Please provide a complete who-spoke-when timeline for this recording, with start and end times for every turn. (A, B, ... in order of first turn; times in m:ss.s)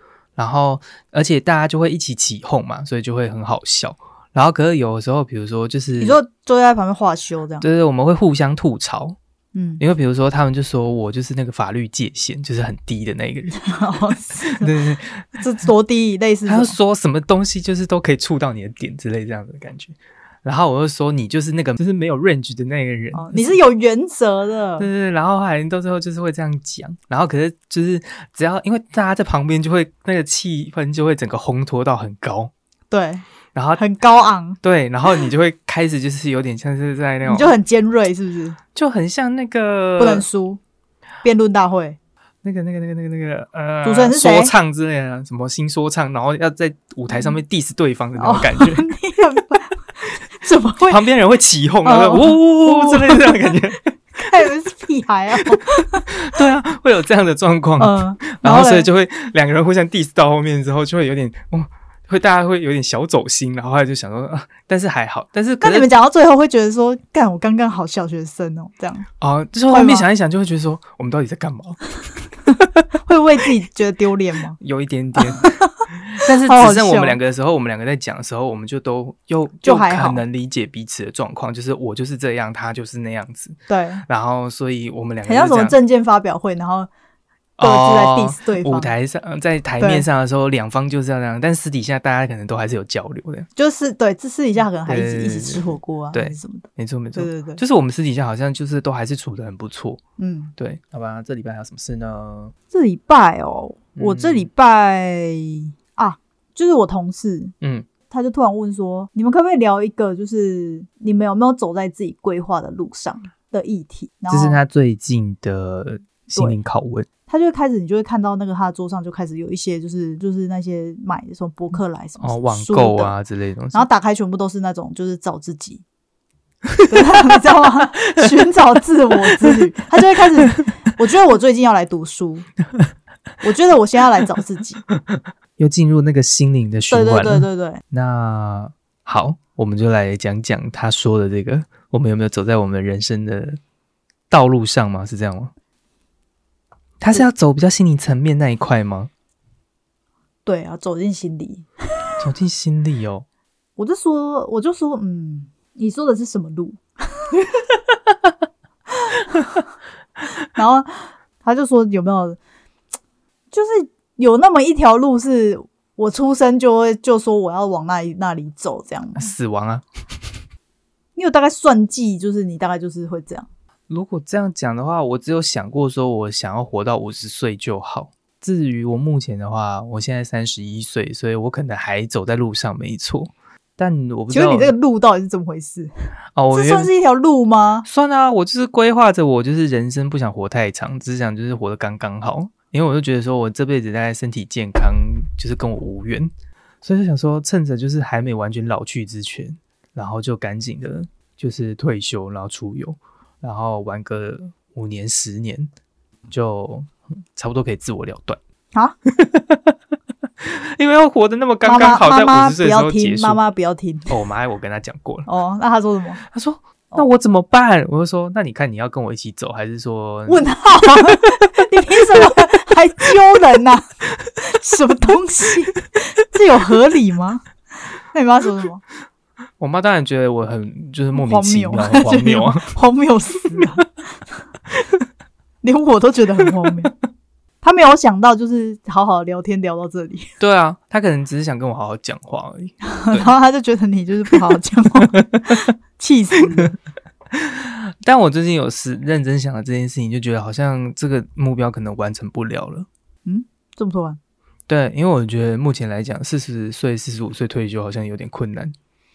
0:00.4-0:06.2 A
0:06.0-0:07.6 B
0:07.6-0:09.2 A
0:09.5-0:09.8 B
0:09.8-0:15.4 A
0:13.6-0:14.7 B
0:15.4-0:16.8 B
0:16.5-0:23.6 A
0:23.1-0:24.9 B
0:24.8-0:32.5 A
0:32.9-0:33.2 B
0:33.6-0:33.8 A
0:33.8-0:34.6 B
0:34.6-0:37.6 A
0:37.2-0:38.6 B
0:38.8-0:40.2 A
0:40.0-0:40.6 B
0:41.2-0:42.0 B
0:42.4-0:48.9 A
0:43.8-0:44.5 B
0:47.1-0:47.4 B
0:48.2-0:51.0 B
0:50.8-0:53.9 A
0:51.8-0:53.5 B
0:54.2-0:56.1 B
0:56.1-1:05.9 A
0:57.8-0:58.9 B
1:05.6-1:09.1 B
1:09.2-1:11.8 A
1:09.7-1:10.1 B
1:13.0-1:14.6 B
1:14.6-1:23.6 A
1:15.2-1:17.2 B
1:19.6-1:20.2 B
1:23.7-1:24.0 B
1:24.1-1:25.8 A
1:25.2-1:26.9 B
1:27.6-1:33.5 A
1:27.6-1:28.9 B
1:29.8-1:30.1 B
1:33.6-1:37.6 B
1:34.8-1:40.0 A
1:40.2-1:40.5 B
1:40.6-1:42.5 A
1:42.7-1:47.5 B
1:44.0-1:44.5 A
1:47.6-1:47.9 A
1:48.1-1:54.6 B
1:54.3-1:57.1 A
1:57.3-2:03.2 B
2:02.2-2:03.9 A
2:03.7-2:05.8 B
2:06.7-2:07.3 A
2:06.9-2:12.5 B
2:08.0-2:08.5 A
2:09.3-2:09.6 A
2:13.4-2:14.8 B
2:15.1-2:23.6 A
2:16.9-2:17.8 B
2:24.3-2:25.5 A
2:27.0-2:29.1 A
2:30.4-2:31.7 B
2:32.2-2:33.2 A
2:33.8-2:37.3 B
2:40.5-2:42.4 B
2:43.5-2:49.3 B
2:49.2-2:49.9 A
2:51.2-2:53.5 B
2:53.9-3:04.7 A
3:04.3-3:05.9 B
3:06.4-3:06.9 A
3:06.5-3:07.9 B
3:07.8-3:16.3 A
3:16.8-3:25.7 A
3:26.3-3:28.4 A
3:29.1-3:29.8 A
3:30.4-3:33.4 A
3:31.6-3:34.1 B
3:34.1-3:35.3 A
3:35.3-3:36.2 B
3:36.3-3:40.5 A
3:40.3-3:47.4 B
3:48.1-3:48.8 B
3:49.6-3:52.7 A
3:51.1-3:53.8 B
3:53.5-3:53.8 A
3:55.6-3:56.9 B
3:57.6-4:00.3 B
4:00.4-4:03.3 A
4:02.9-4:06.8 B
4:05.0-4:05.6 A
4:07.3-4:12.9 A
4:13.2-4:14.2 B
4:14.7-4:18.7 A